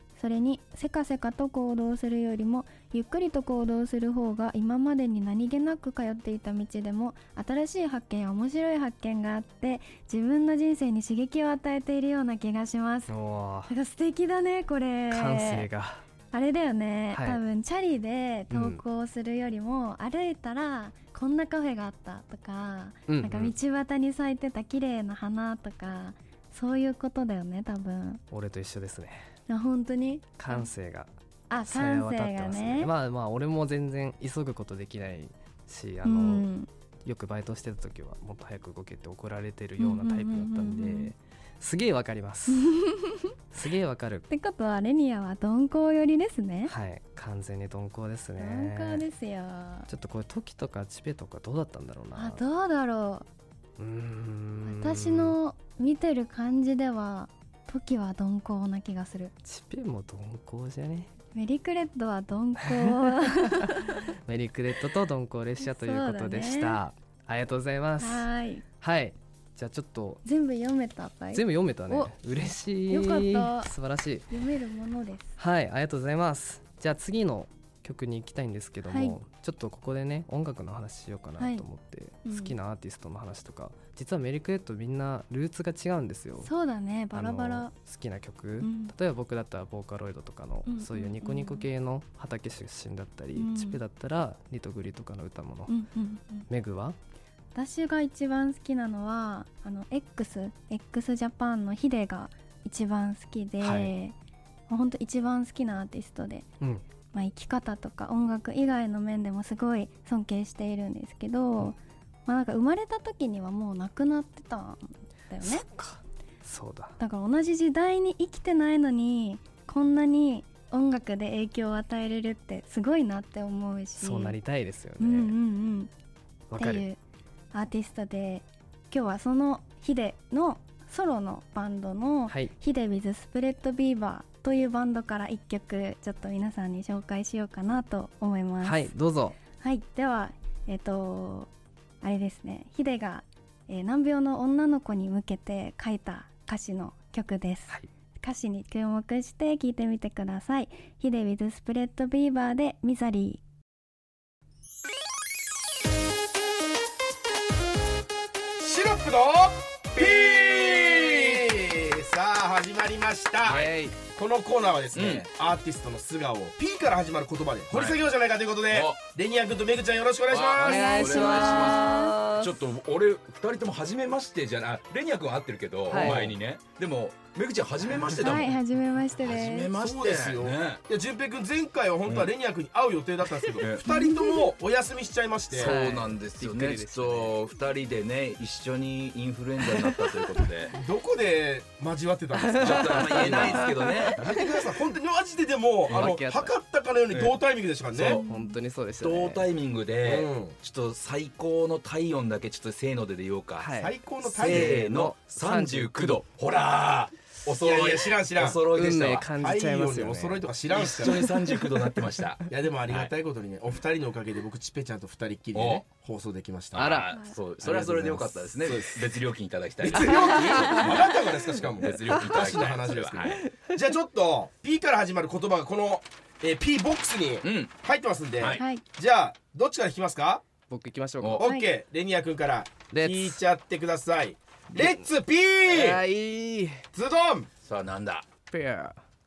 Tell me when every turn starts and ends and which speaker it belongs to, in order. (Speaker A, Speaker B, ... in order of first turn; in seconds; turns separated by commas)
Speaker A: 0.1-13.1, Speaker B: 13.1-13.7, Speaker A: 13.7-15.7, Speaker B: 15.1-16.0, Speaker A: 16.3-28.2, Speaker B: 17.1-17.4, Speaker B: 18.5-18.8, Speaker B: 23.1-23.6, Speaker B: 28.3-29.2, Speaker A: 29.5-30.7, Speaker B: 30.4-31.1, Speaker A: 31.5-32.9, Speaker B: 31.6-36.5, Speaker A: 36.0-36.7, Speaker B: 37.0-42.7, Speaker A: 39.8-41.1, Speaker A: 42.5-43.3, Speaker B: 43.5-44.3, Speaker A: 44.3-46.7, Speaker B: 46.6-49.0, Speaker A: 48.4-49.9, Speaker B: 49.9-52.4, Speaker A: 52.1-53.2, Speaker B: 53.8-55.4, Speaker A: 54.6-59.3, Speaker B: 59.4-61.1, Speaker A: 61.3-64.0, Speaker B: 64.2-68.3, Speaker A: 65.6-66.8, Speaker A: 68.0-68.6, Speaker B: 68.8-70.2, Speaker A: 70.2-72.1, Speaker B: 71.3-74.3, Speaker A: 72.9-73.7, Speaker A: 74.3-75.3, Speaker B: 75.4-86.5, Speaker A: 78.9-79.2, Speaker A: 81.4-81.6, Speaker A: 82.2-82.5, Speaker A: 86.4-87.7, Speaker B: 87.1-95.7, Speaker A: 88.6-88.9, Speaker A: 90.7-91.7, Speaker A: 93.3-93.8, Speaker A: 95.7-96.5, Speaker B: 96.5-97.0, Speaker A: 97.5-104.1, Speaker B: 103.6-103.9, Speaker A: 104.7-106.4, Speaker A: 107.1-115.6, Speaker B: 115.4-116.9, Speaker A: 117.0-124.4, Speaker B: 124.0-125.3, Speaker A: 125.0-125.9, Speaker B: 126.5-126.8, Speaker A: 126.6-127.0, Speaker A: 127.5-138.9, Speaker B: 138.6-139.4, Speaker A: 139.6-141.5, Speaker A: 142.0-153.4, Speaker C: 158.6-171.4, Speaker D: 159.9-161.1, Speaker D: 163.4-163.7, Speaker B: 163.4-163.9, Speaker D: 164.9-165.3, Speaker D: 167.7-168.0, Speaker D: 168.7-169.0, Speaker D: 170.3-178.6, Speaker B: 170.6-172.6, Speaker A: 170.7-172.1, Speaker B: 175.9-176.4, Speaker A: 178.2-179.7, Speaker D: 179.2-180.8, Speaker C: 179.7-185.8, Speaker A: 183.8-184.5, Speaker D: 185.5-190.7, Speaker B: 185.6-187.3, Speaker C: 190.7-198.2, Speaker B: 192.4-194.3, Speaker D: 192.6-194.2, Speaker D: 195.9-196.2, Speaker B: 195.9-196.5, Speaker B: 197.9-199.5, Speaker A: 198.1-198.6, Speaker D: 199.0-203.7, Speaker C: 200.0-200.6, Speaker B: 203.6-206.2, Speaker C: 203.8-204.8, Speaker D: 204.4-209.3, Speaker C: 207.5-208.6, Speaker B: 208.7-210.5, Speaker C: 209.3-211.3, Speaker D: 210.7-213.1, Speaker C: 212.5-217.0, Speaker D: 215.5-215.8, Speaker D: 216.7-223.4, Speaker B: 216.7-217.1, Speaker A: 217.1-217.4, Speaker C: 217.6-219.2, Speaker B: 217.7-218.5, Speaker C: 219.8-230.4, Speaker B: 222.1-222.4, Speaker D: 227.4-227.7, Speaker A: 228.5-228.8, Speaker B: 230.7-231.4, Speaker C: 231.4-236.0, Speaker A: 231.4-231.7, Speaker B: 232.9-233.4, Speaker B: 234.7-235.0, Speaker B: 235.7-236.9, Speaker C: 236.9-237.5, Speaker D: 237.6-238.2, Speaker B: 238.5-239.0